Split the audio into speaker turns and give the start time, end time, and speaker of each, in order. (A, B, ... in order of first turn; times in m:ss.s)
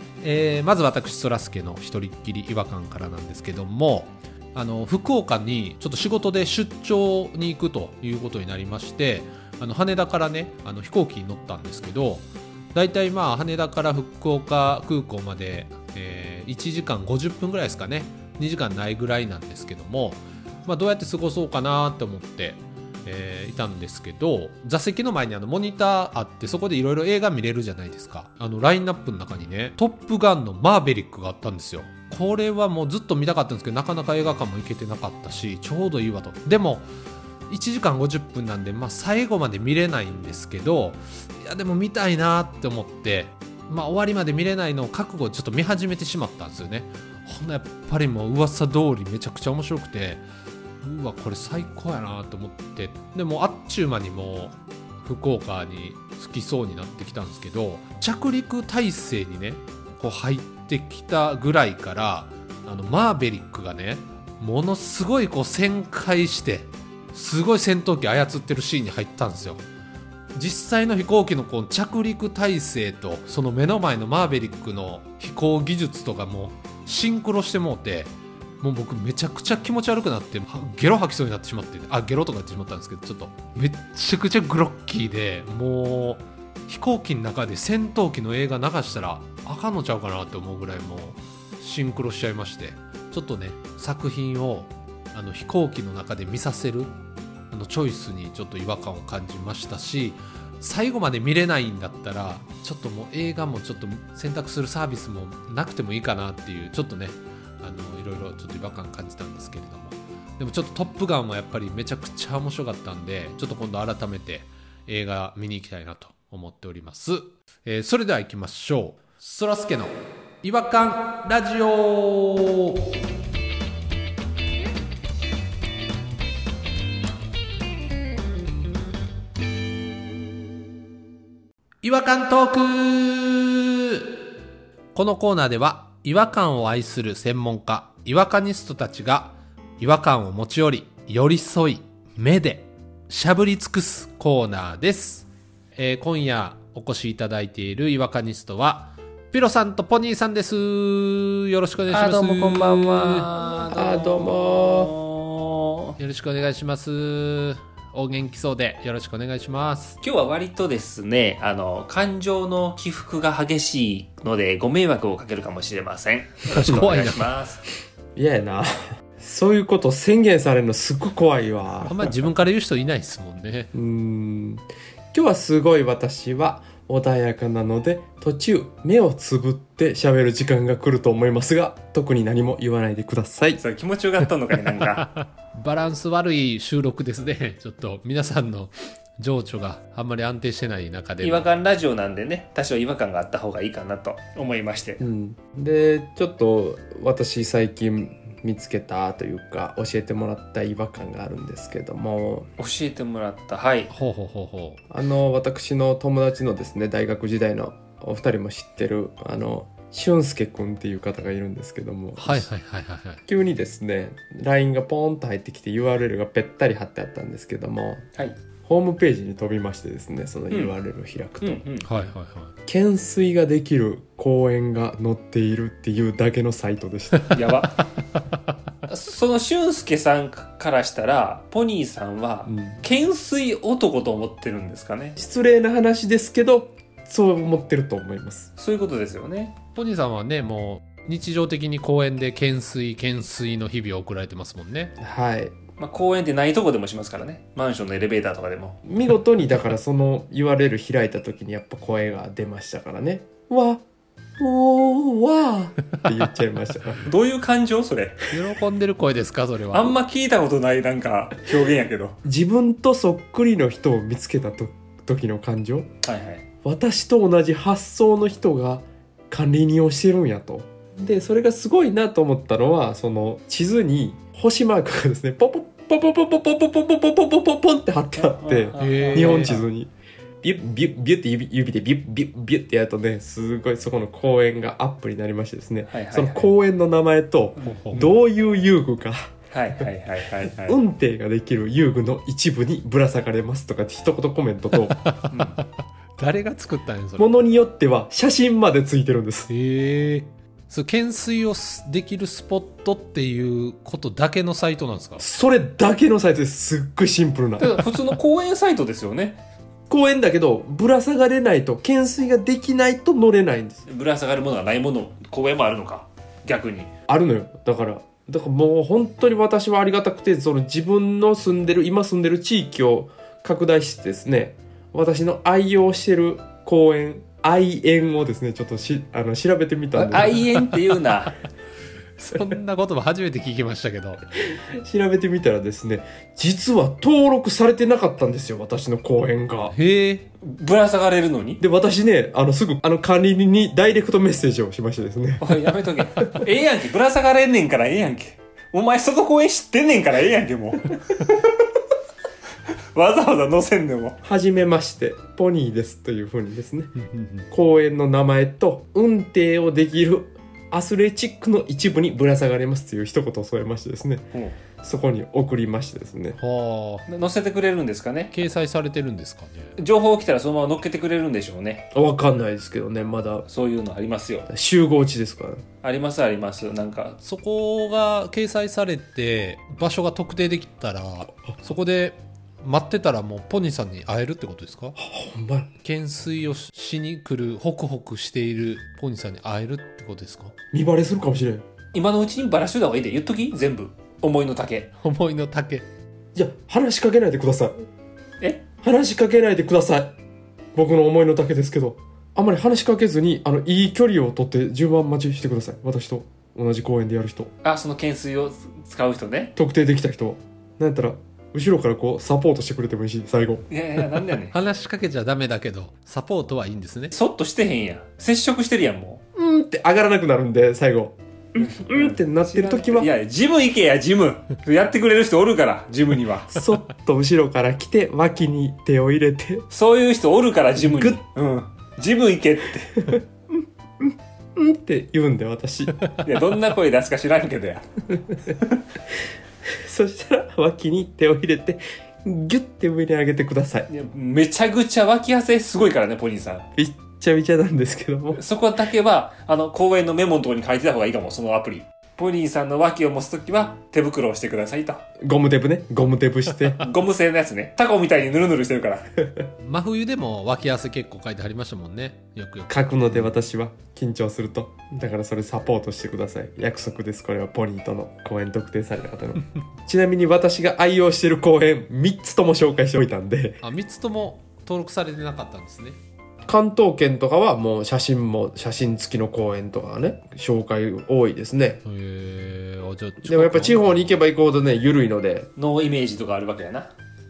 0:00.2-0:36.8 A
0:37.5-0:50.2 A
0:50.8-1:09.6 A
1:10.3-1:36.9 A
1:37.5-2:02.8 A
2:11.8-2:14.1 A
2:14.9-2:33.3 A
2:31.9-2:36.0 B
2:33.7-2:34.9 C
2:36.0-2:40.0 A
2:40.0-2:47.6 B
2:46.5-2:47.3 A
2:46.7-2:47.0 C
2:48.2-2:52.2 C
2:51.8-2:53.7 A
2:53.7-3:03.6 C
3:03.6-3:05.0 B
3:05.0-3:11.5 A
3:11.2-3:15.0 B
3:15.0-3:22.5 C
3:22.6-3:23.9 B
3:23.9-3:24.8 A
3:24.9-3:32.5 C
3:32.2-3:33.2 A
3:33.3-3:38.0 C
3:38.6-3:41.6 C
3:41.4-3:41.8 B
3:41.8-3:42.5 A
3:42.6-3:47.3 C
3:47.3-3:47.8 B
3:48.9-3:55.2 B
3:52.4-3:52.8 C
3:55.2-3:58.5 C
3:58.6-3:59.6 B
3:59.7-4:04.9 A
4:05.0-4:05.5 C
4:05.8-4:08.8 B
4:08.8-4:13.8 C
4:14.4-4:17.1 C
4:17.0-4:18.2 B
4:18.3-4:19.9 A
4:19.7-4:22.2 B
4:22.2-4:25.9 C
4:26.0-4:26.4 B
4:26.6-4:39.9 C
4:38.2-4:39.6 B
4:38.8-4:39.6 A
4:40.4-4:49.3 C
4:45.9-4:46.6 B
4:47.6-4:48.2 A
4:49.5-4:50.8 B
4:50.4-4:55.0 C
4:54.7-4:55.6 A
4:55.3-4:55.6 B
4:56.2-4:57.4 A
4:57.2-4:59.5 C
4:59.5-5:05.2 A
5:05.2-5:07.8 C
5:07.6-5:09.4 B
5:09.9-5:13.8 C
5:13.8-5:16.9 B
5:17.1-5:30.6 C
5:29.9-5:31.3 B
5:32.2-5:34.2 A
5:34.5-5:39.7 C
5:39.7-5:40.2 A
5:40.4-5:41.6 B
5:41.6-5:45.6 C
5:45.4-5:51.6 B
5:52.9-5:54.2 B
5:54.2-5:56.9 C
5:57.0-5:57.5 A
5:57.5-6:04.3 C
6:04.8-6:06.4 C
6:06.4-6:07.0 A
6:07.0-6:08.3 B
6:08.3-6:09.7 A
6:09.8-6:11.9 B
6:11.9-6:13.4 C
6:13.4-6:14.5 B
6:14.5-6:15.6 C
6:15.8-6:17.2 B
6:17.2-6:25.0 A
6:21.3-6:21.6 C
6:25.0-6:25.7 C
6:25.8-6:30.5 A
6:30.7-6:31.6 C
6:31.9-6:34.9 B
6:35.0-6:35.9 A
6:36.3-6:37.7 C
6:38.8-6:40.1 C
6:40.7-6:47.5 C
6:47.6-6:49.5 B
6:49.6-6:53.6 C
6:53.7-6:54.5 B
6:54.5-6:57.1 A
6:57.1-6:59.2 B
6:59.3-7:03.1 C
7:01.6-7:06.5 B
7:06.5-7:09.6 C
7:09.7-7:13.1 B
7:10.8-7:11.2 C
7:14.0-7:15.9 C
7:16.2-7:17.8 B
7:18.5-7:18.8 B
7:19.8-7:23.9 C
7:23.9-7:26.7 B
7:26.8-7:28.4 C
7:28.3-7:35.0 B
7:35.2-7:36.8 C
7:36.8-7:39.0 B
7:39.6-7:43.4 A
7:42.7-7:53.6 C
7:53.6-7:56.0 A
7:56.5-8:01.8 C
8:01.8-8:04.1 A
8:03.2-8:05.5 C
8:05.6-8:06.9 B